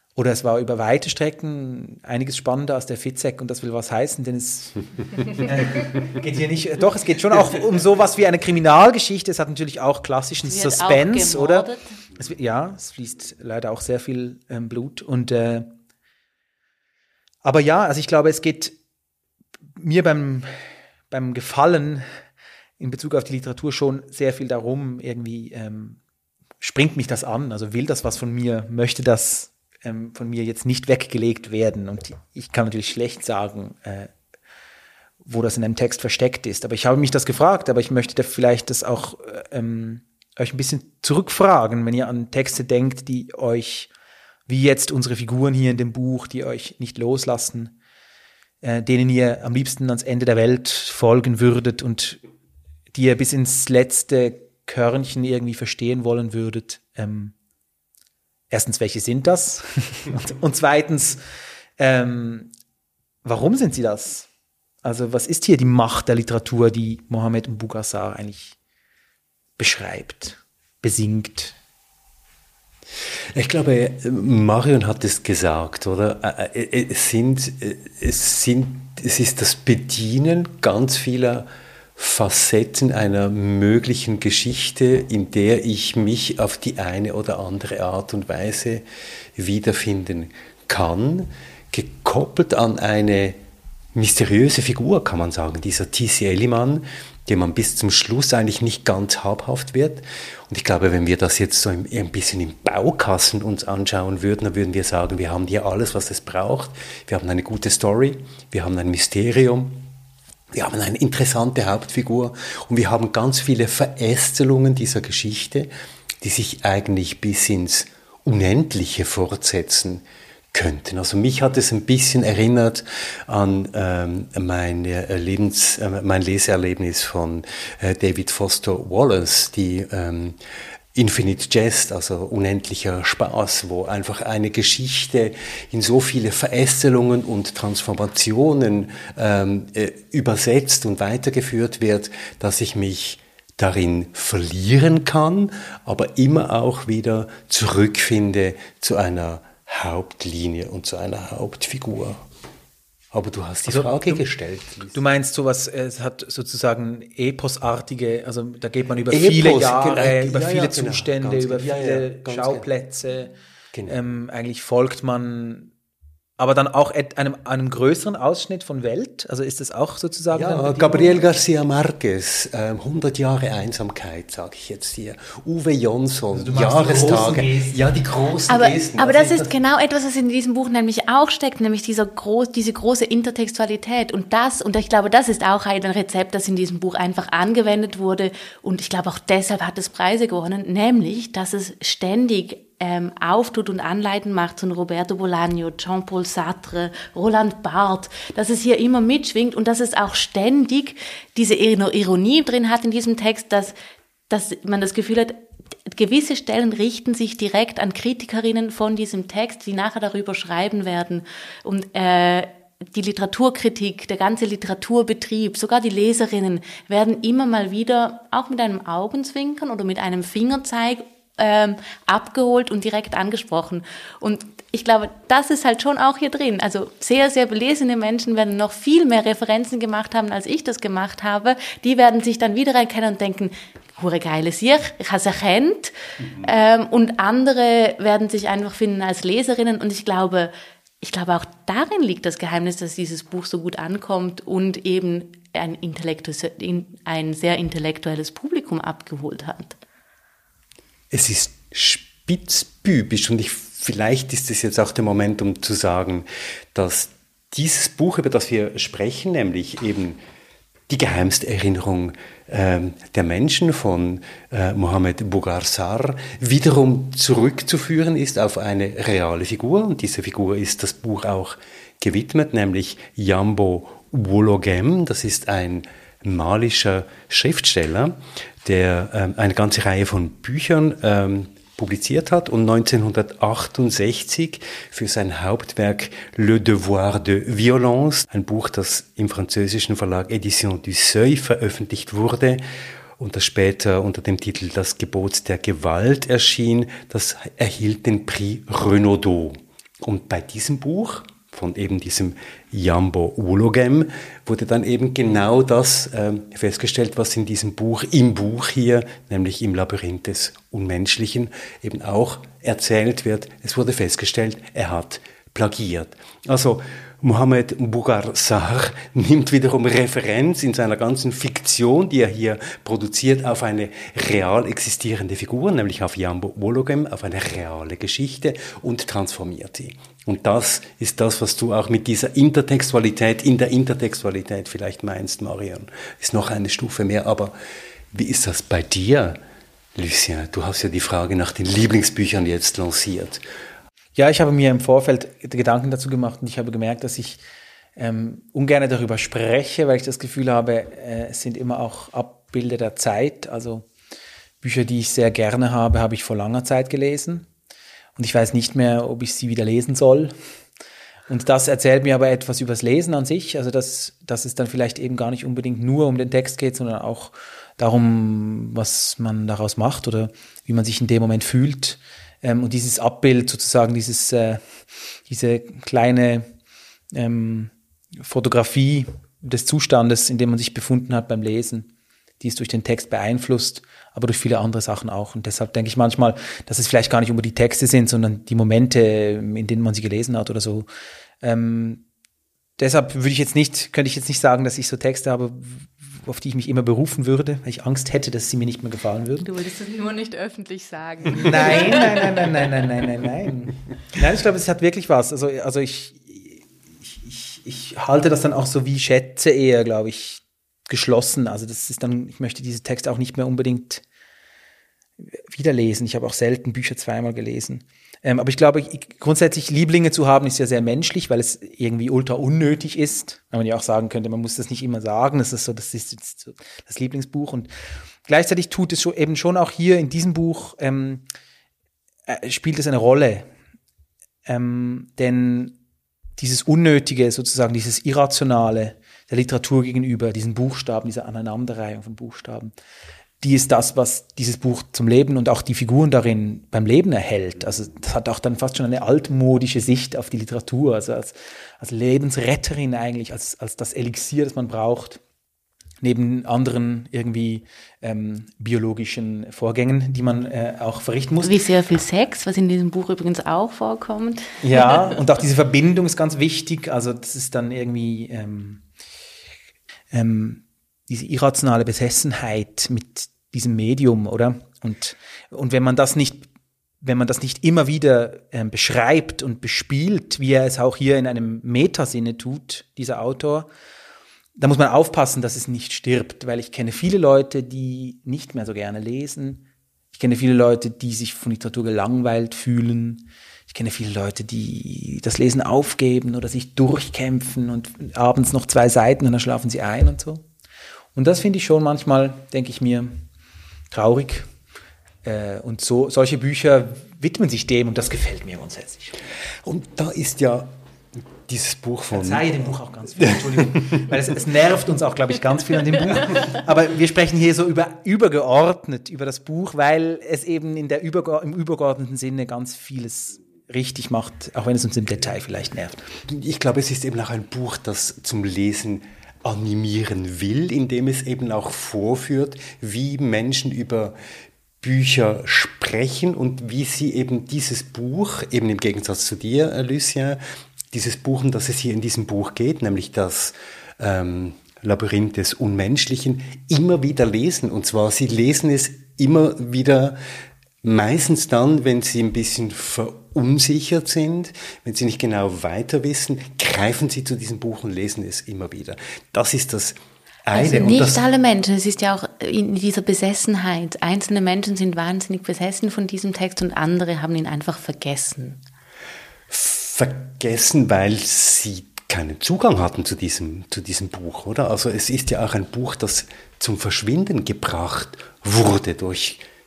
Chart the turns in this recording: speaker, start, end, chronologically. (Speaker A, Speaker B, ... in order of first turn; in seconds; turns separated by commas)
Speaker A: 0.2-15.7, Speaker B: 10.4-11.9, Speaker A: 17.4-18.8, Speaker A: 19.8-20.6, Speaker A: 21.1-22.1, Speaker A: 22.8-26.0, Speaker A: 26.6-34.1, Speaker A: 35.2-43.9, Speaker A: 44.5-47.7, Speaker A: 48.6-52.2, Speaker A: 52.9-57.3, Speaker A: 58.5-61.2, Speaker A: 61.8-62.5, Speaker A: 63.2-64.3, Speaker A: 64.8-68.5, Speaker A: 69.6-71.6, Speaker C: 73.3-88.8, Speaker C: 89.4-93.4, Speaker C: 93.9-109.9, Speaker C: 110.5-115.7, Speaker C: 116.2-130.4, Speaker C: 130.9-152.2, Speaker C: 153.1-155.0, Speaker A: 153.7-154.2, Speaker A: 154.9-163.3, Speaker C: 159.1-162.7, Speaker C: 163.7-164.0, Speaker A: 163.9-165.7, Speaker A: 166.4-171.2, Speaker C: 170.3-179.5, Speaker A: 176.3-177.8, Speaker B: 178.5-203.8, Speaker B: 204.3-249.8, Speaker C: 251.1-260.2, Speaker C: 260.9-292.6, Speaker C: 293.2-337.5, Speaker C: 338.1-339.4, Speaker C: 339.9-343.4, Speaker A: 344.1-347.4, Speaker A: 348.0-353.9, Speaker A: 354.6-357.5, Speaker A: 358.2-360.3, Speaker A: 361.3-374.6, Speaker A: 375.3-376.5, Speaker A: 377.1-381.9, Speaker A: 382.4-390.9, Speaker A: 391.4-392.0, Speaker A: 392.8-399.5, Speaker B: 399.5-402.3, Speaker A: 401.4-414.0, Speaker A: 415.5-427.7, Speaker A: 428.3-431.2, Speaker A: 432.3-433.5, Speaker A: 434.5-435.8, Speaker A: 436.4-442.7, Speaker A: 443.4-455.2, Speaker A: 456.0-461.6, Speaker B: 461.4-464.6, Speaker A: 464.6-468.8, Speaker A: 470.1-476.5, Speaker A: 477.0-483.7, Speaker A: 484.6-500.4, Speaker A: 501.1-503.2, Speaker A: 503.9-504.5, Speaker A: 505.2-509.2, Speaker C: 509.6-510.7, Speaker C: 511.5-514.2, Speaker A: 512.1-526.0, Speaker C: 526.3-534.1, Speaker C: 534.8-540.4, Speaker C: 540.9-550.2, Speaker C: 550.8-561.2, Speaker B: 560.5-568.6, Speaker C: 569.5-579.4